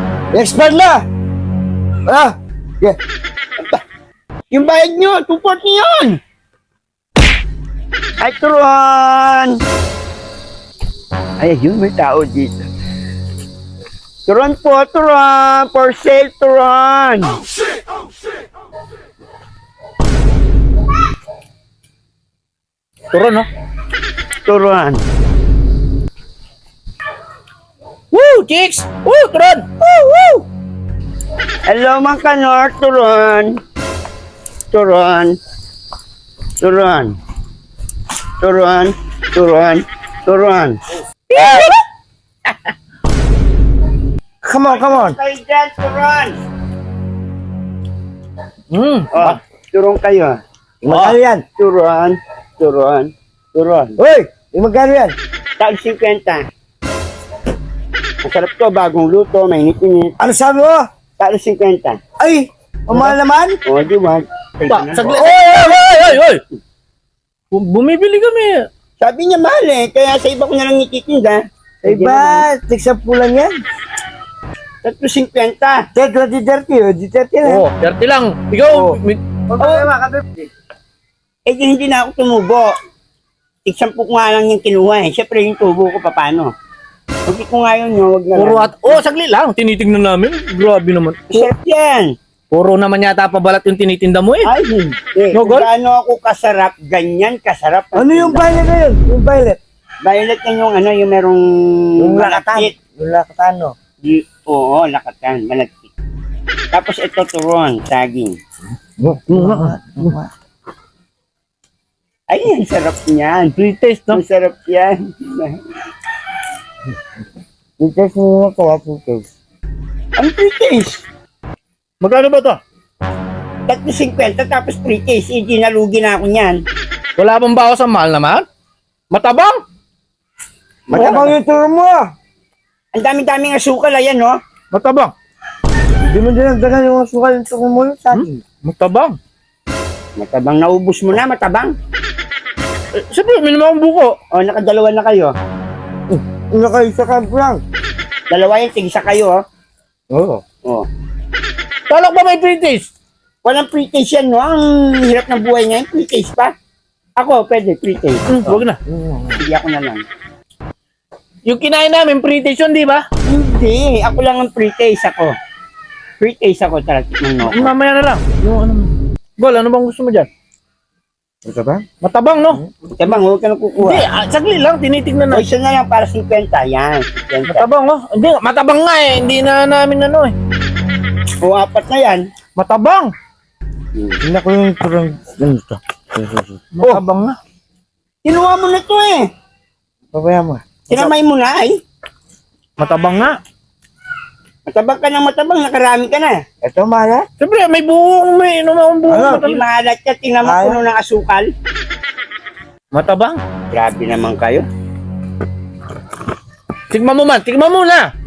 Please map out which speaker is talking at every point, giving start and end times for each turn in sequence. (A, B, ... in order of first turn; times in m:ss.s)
0:00.3-0:01.0 A
0:02.1-0:03.0 A
0:04.5-0:06.2 B
0:08.2-0:09.5 B
0:11.4-0:12.6 B
0:14.2-0:17.4 B
0:23.1-0:23.4 C
0:24.4-0:25.0 B
0:28.1-0:30.4 C
0:31.7-0:33.5 B
0:34.7-0:35.3 B
0:36.6-0:37.1 B
0:38.4-0:40.8 B
0:41.3-0:41.8 C
0:41.4-0:41.6 A
0:44.4-0:45.2 A
0:44.6-0:46.4 B
0:48.7-0:49.4 C
0:49.1-0:50.4 B
0:50.8-0:51.4 A
0:51.6-0:53.9 B
0:54.0-0:55.1 A
0:55.6-0:56.4 B
0:58.2-1:00.1 B
1:00.2-1:00.8 A
1:01.2-1:02.0 B
1:02.2-1:03.6 A
1:03.6-1:05.4 B
1:04.7-1:06.4 C
1:05.1-1:05.9 A
1:07.5-1:08.6 C
1:09.0-1:12.5 B
1:11.8-1:13.6 A
1:14.8-1:15.8 B
1:15.9-1:17.6 A
1:17.4-1:19.2 C
1:18.7-1:19.0 A
1:19.5-1:20.4 A
1:19.6-1:19.9 B
1:21.5-1:22.7 B
1:23.6-1:26.5 B
1:27.2-1:29.0 B
1:28.3-1:31.5 C
1:31.3-1:32.1 B
1:32.5-1:34.5 C
1:34.4-1:38.6 B
1:35.3-1:35.7 C
1:37.9-1:39.6 A
1:40.0-1:42.7 B
1:42.0-1:43.7 A
1:44.0-1:45.9 B
1:46.7-1:48.3 B
1:49.0-1:50.3 A
1:49.3-1:50.1 C
1:52.3-1:53.6 B
1:53.6-1:54.2 C
1:54.1-1:55.6 B
1:57.8-1:59.2 A
2:00.2-2:01.0 B
2:02.0-2:02.6 C
2:03.7-2:06.6 B
2:07.2-2:08.4 C
2:09.1-2:09.6 C
2:10.9-2:12.0 A
2:10.9-2:11.3 C
2:12.9-2:14.4 B
2:14.7-2:15.1 C
2:16.0-2:18.4 A
2:18.1-2:19.2 C
2:20.2-2:21.7 B
2:22.9-2:24.1 C
2:24.3-2:25.3 B
2:26.1-2:27.6 A
2:28.3-2:29.4 B
2:30.1-2:30.4 A
2:31.9-2:32.9 C
2:33.4-2:36.5 B
2:37.2-2:38.6 B
2:38.3-2:38.8 C
2:38.9-2:39.4 A
2:39.3-2:40.0 B
2:41.4-2:43.0 C
2:43.2-2:45.3 B
2:46.2-2:47.7 B
2:47.4-2:50.3 C
2:51.4-2:51.8 A
2:52.0-2:52.6 C
2:52.9-2:54.0 B
2:53.8-2:55.4 C
2:55.3-2:57.7 B
2:57.5-3:00.3 C
3:01.4-3:02.2 B
3:02.6-3:03.1 C
3:04.2-3:07.0 A
3:06.8-3:07.4 C
3:08.2-3:09.2 B
3:10.1-3:11.1 A
3:10.9-3:11.8 B
3:12.8-3:13.4 C
3:14.7-3:16.4 B
3:16.6-3:17.2 A
3:17.4-3:19.6 C
3:19.1-3:19.4 A
3:19.2-3:21.5 B
3:20.4-3:20.8 A
3:22.9-3:23.4 C
3:23.7-3:24.6 B
3:26.9-3:28.1 C